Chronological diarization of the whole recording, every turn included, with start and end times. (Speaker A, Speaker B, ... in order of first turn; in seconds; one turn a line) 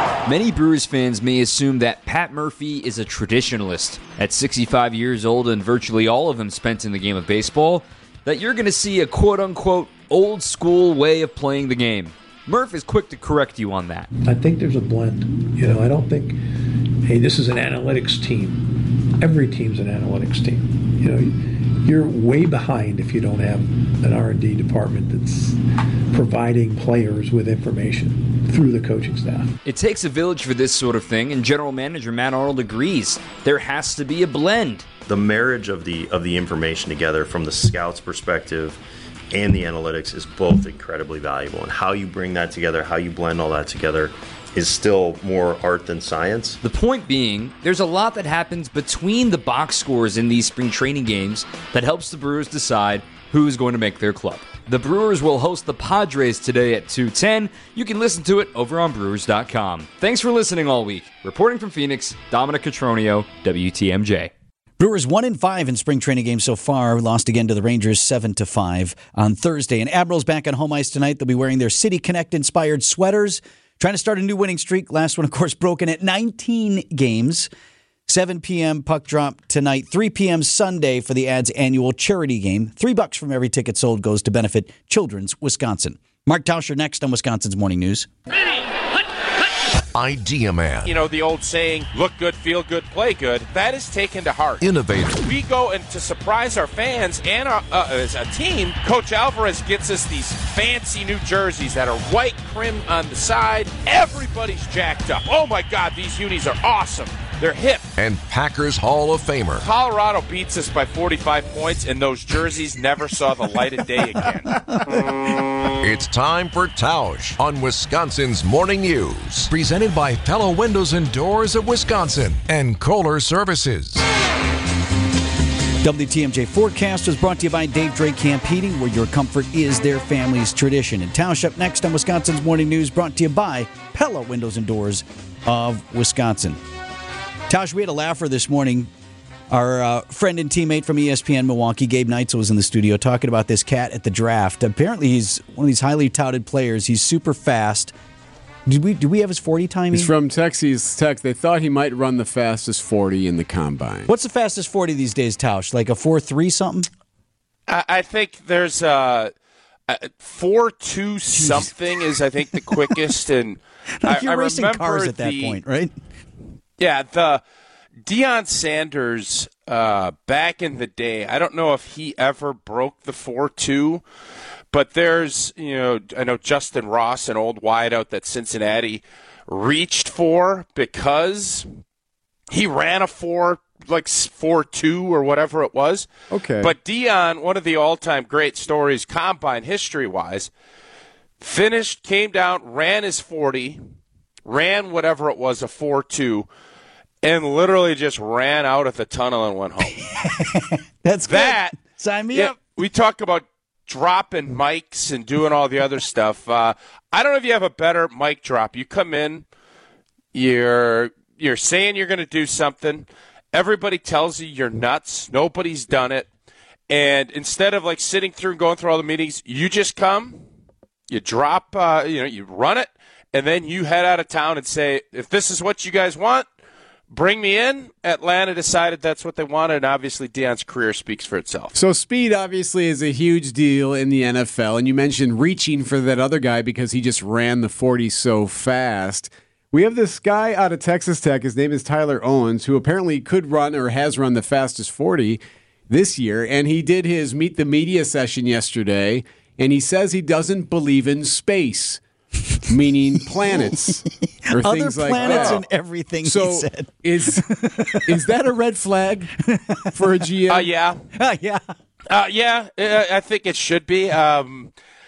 Speaker A: 0.2-14.1
Speaker B: 14.2-29.5
Speaker A: 29.6-34.9
Speaker C: 35.0-38.8
Speaker C: 39.3-46.6
Speaker A: 46.6-64.3
Speaker D: 64.8-77.5
Speaker D: 78.1-88.1
Speaker E: 89.9-90.9
Speaker F: 90.8-94.6
Speaker E: 94.6-95.3
Speaker F: 95.2-107.9
Speaker E: 108.0-109.7
Speaker F: 109.6-114.5
Speaker D: 114.5-115.1
Speaker E: 115.8-124.0
Speaker D: 125.8-136.6
Speaker D: 137.5-138.9
Speaker D: 139.5-147.9
Speaker D: 148.7-150.1
Speaker G: 149.9-154.1
Speaker D: 154.1-156.9
Speaker F: 157.7-159.3
Speaker F: 159.9-165.6
Speaker D: 161.4-161.7
Speaker D: 164.0-165.9
Speaker F: 166.8-167.4
Speaker F: 168.0-174.0
Speaker F: 174.7-181.7
Speaker F: 182.5-186.1
Speaker G: 186.3-186.7
Speaker F: 186.6-190.5
Speaker F: 191.4-193.8
Speaker F: 194.4-196.5
Speaker F: 197.2-200.0
Speaker D: 200.1-202.5
Speaker F: 201.2-201.8
Speaker F: 202.3-209.4
Speaker F: 210.3-216.3
Speaker F: 216.9-220.4
Speaker F: 221.1-226.4
Speaker F: 227.1-231.7
Speaker G: 231.7-252.0
Speaker G: 252.7-255.7
Speaker D: 254.5-258.0
Speaker F: 255.2-255.6
Speaker G: 256.2-257.4
Speaker G: 258.1-259.3
Speaker D: 259.4-259.9
Speaker G: 259.9-260.7
Speaker F: 260.5-261.0
Speaker D: 261.1-261.6
Speaker F: 262.1-264.7